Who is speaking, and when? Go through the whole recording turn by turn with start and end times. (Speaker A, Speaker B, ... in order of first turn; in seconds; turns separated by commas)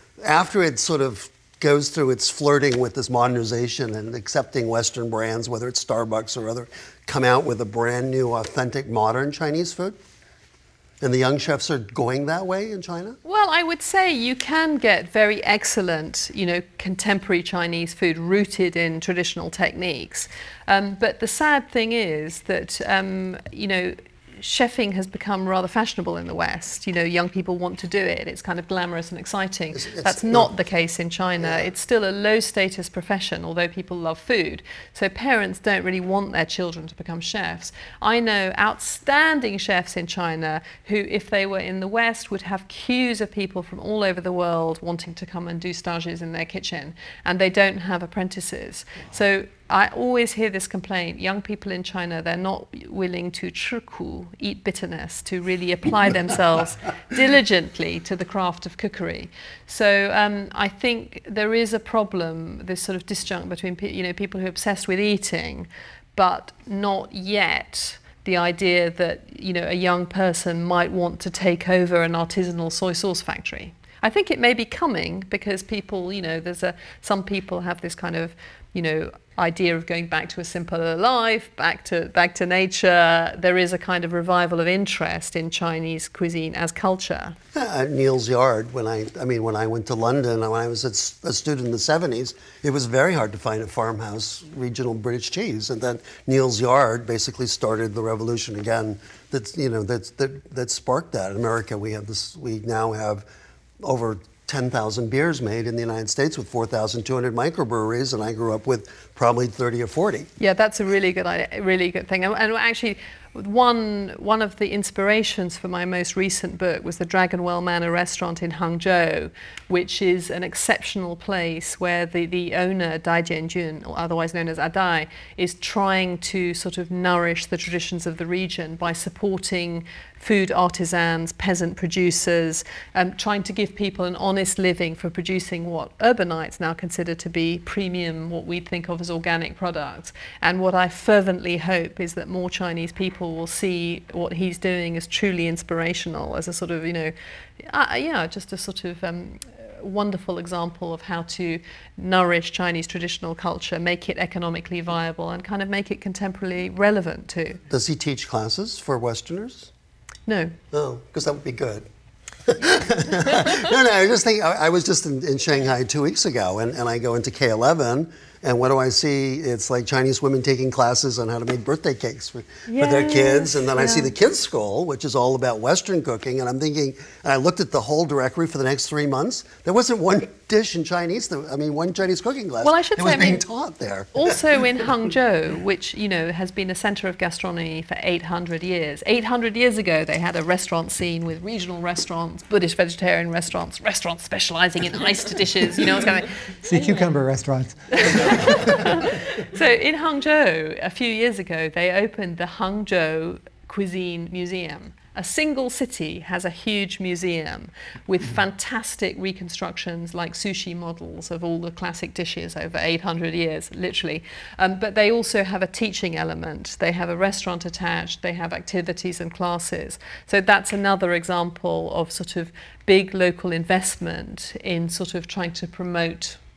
Speaker A: 0.2-10.0, Speaker A: 11.0-13.2, Speaker B: 13.2-87.4, Speaker A: 29.7-30.5, Speaker A: 87.5-103.2, Speaker A: 103.8-110.3, Speaker B: 110.4-157.6, Speaker A: 157.7-159.7, Speaker B: 160.3-160.5, Speaker A: 160.7-161.9, Speaker A: 162.5-184.4, Speaker B: 172.7-174.1, Speaker B: 182.6-183.4, Speaker B: 184.1-197.0, Speaker C: 196.7-198.8, Speaker B: 197.9-226.4